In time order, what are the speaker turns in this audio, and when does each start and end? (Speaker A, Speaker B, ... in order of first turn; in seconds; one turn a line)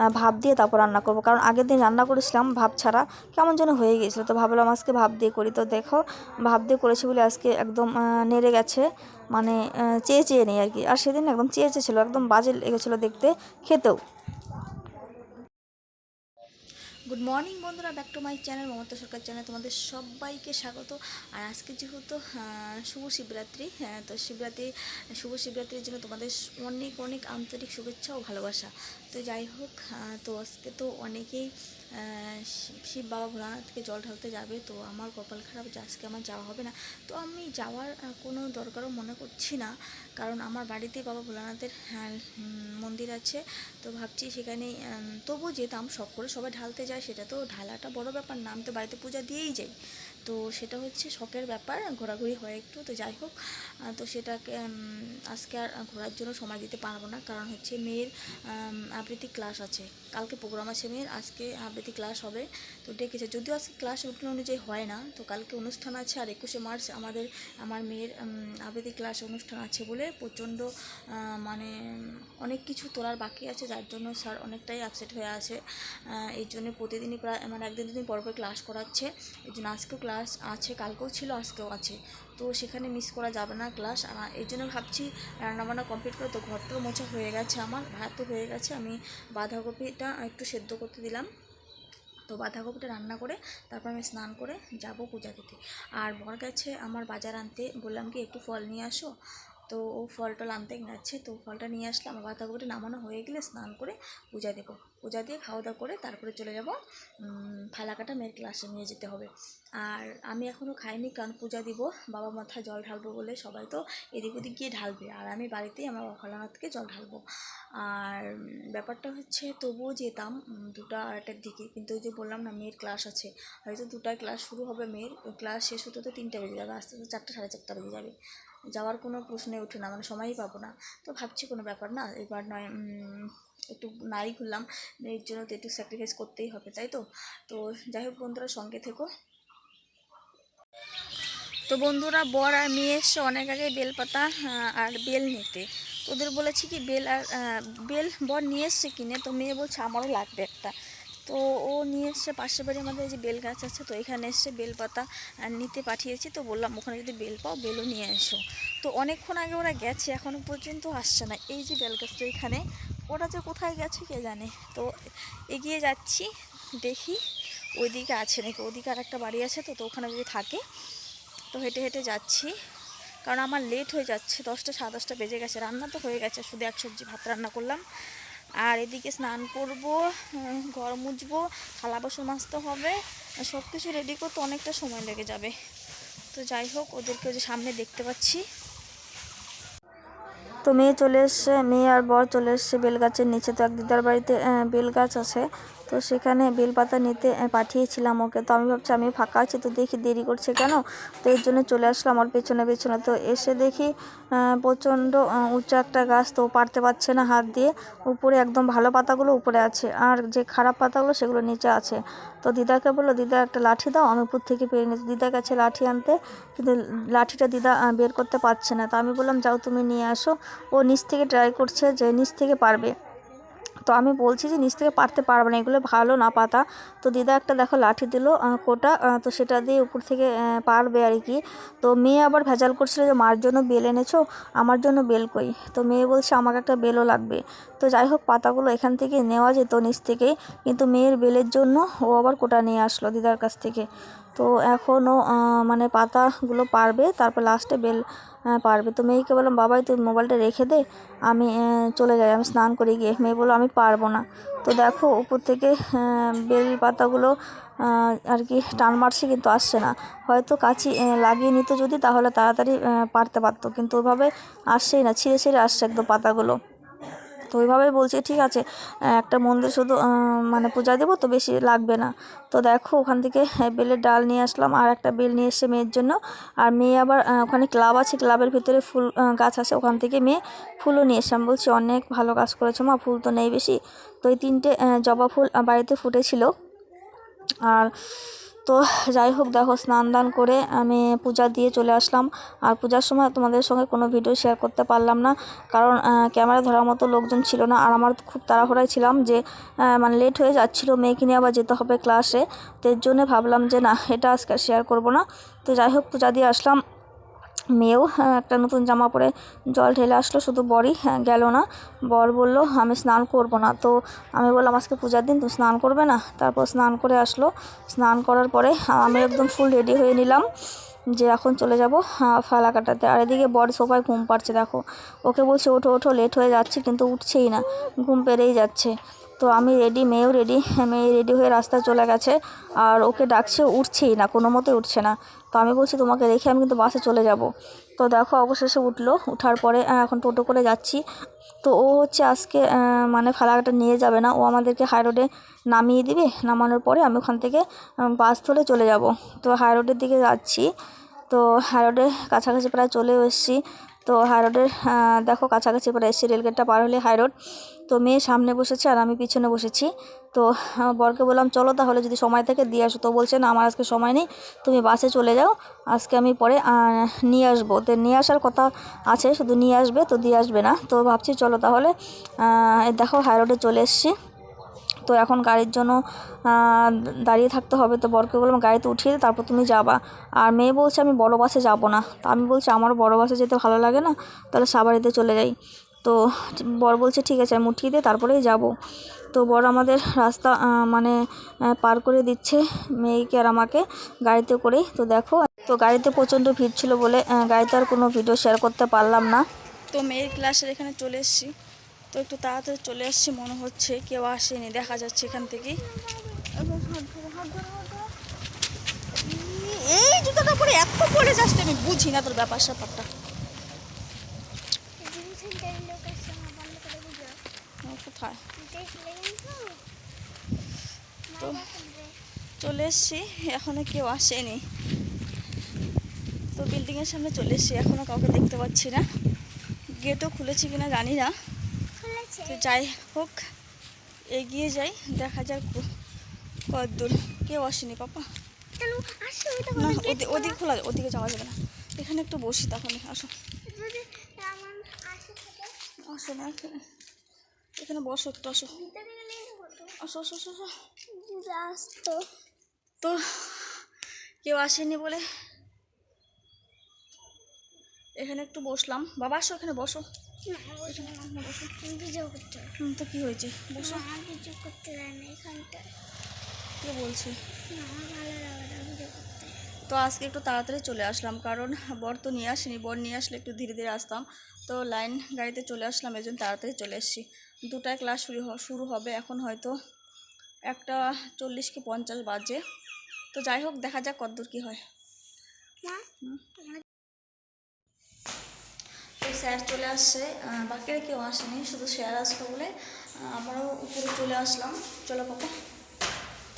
Speaker A: 0.1-14.0
Speaker A: 17.1-49.7
Speaker A: 50.2-53.3
Speaker A: 53.9-70.7
Speaker A: 71.4-71.7
Speaker A: 72.4-75.6
Speaker A: 76.2-91.3
Speaker A: 92.3-99.1
Speaker A: 99.7-109.3
Speaker A: 109.8-117.2
Speaker A: 117.8-128.2
Speaker A: 128.8-139.1
Speaker A: 141.7-150.7
Speaker A: 151.3-164.9
Speaker A: 165.5-166.3
Speaker A: 166.8-167.2
Speaker A: 167.8-170.6
Speaker A: 171.5-172.5
Speaker A: 173.2-177.8
Speaker A: 178.6-185.5
Speaker A: 186.3-188.4
Speaker A: 190.7-222.9
Speaker A: 223.9-248.0
Speaker A: 248.6-266.6
Speaker A: 267.5-286.5
Speaker A: 288.7-306.8
Speaker A: 307.8-320.5
Speaker A: 321.2-341.0
Speaker A: 341.6-350.7
Speaker A: 351.3-357.3
Speaker A: 357.9-374.1
Speaker A: 375.1-386.2
Speaker A: 386.8-388.7
Speaker A: 389.3-391.2
Speaker A: 391.8-401.5
Speaker A: 402.1-405.8
Speaker B: 405.8-406.5
Speaker A: 406.6-408.1
Speaker A: 409.1-413.1
Speaker B: 415.0-417.4
Speaker A: 417.9-418.4
Speaker B: 418.6-419.9
Speaker B: 421.3-422.1
Speaker A: 421.4-421.7
Speaker A: 422.6-424.6
Speaker A: 426.6-429.1
Speaker A: 430.0-431.4
Speaker B: 432.0-432.8
Speaker A: 432.5-433.4
Speaker A: 434.3-435.9
Speaker A: 436.7-438.3
Speaker B: 438.8-440.6
Speaker A: 439.8-443.3
Speaker B: 443.7-445.8
Speaker A: 446.0-446.8
Speaker A: 447.8-448.8
Speaker B: 448.7-450.0
Speaker A: 450.0-450.7
Speaker B: 451.1-452.3
Speaker A: 453.0-453.8
Speaker A: 454.4-455.2
Speaker A: 458.2-460.1
Speaker B: 460.5-461.2
Speaker A: 460.8-461.7
Speaker B: 461.8-462.7
Speaker A: 462.8-464.1
Speaker B: 463.8-465.8
Speaker A: 466.8-467.4
Speaker B: 467.7-469.6
Speaker A: 469.9-479.7
Speaker A: 480.7-482.6
Speaker A: 483.3-484.8
Speaker B: 485.8-486.1
Speaker B: 486.6-486.9
Speaker A: 489.2-492.7
Speaker A: 493.3-495.5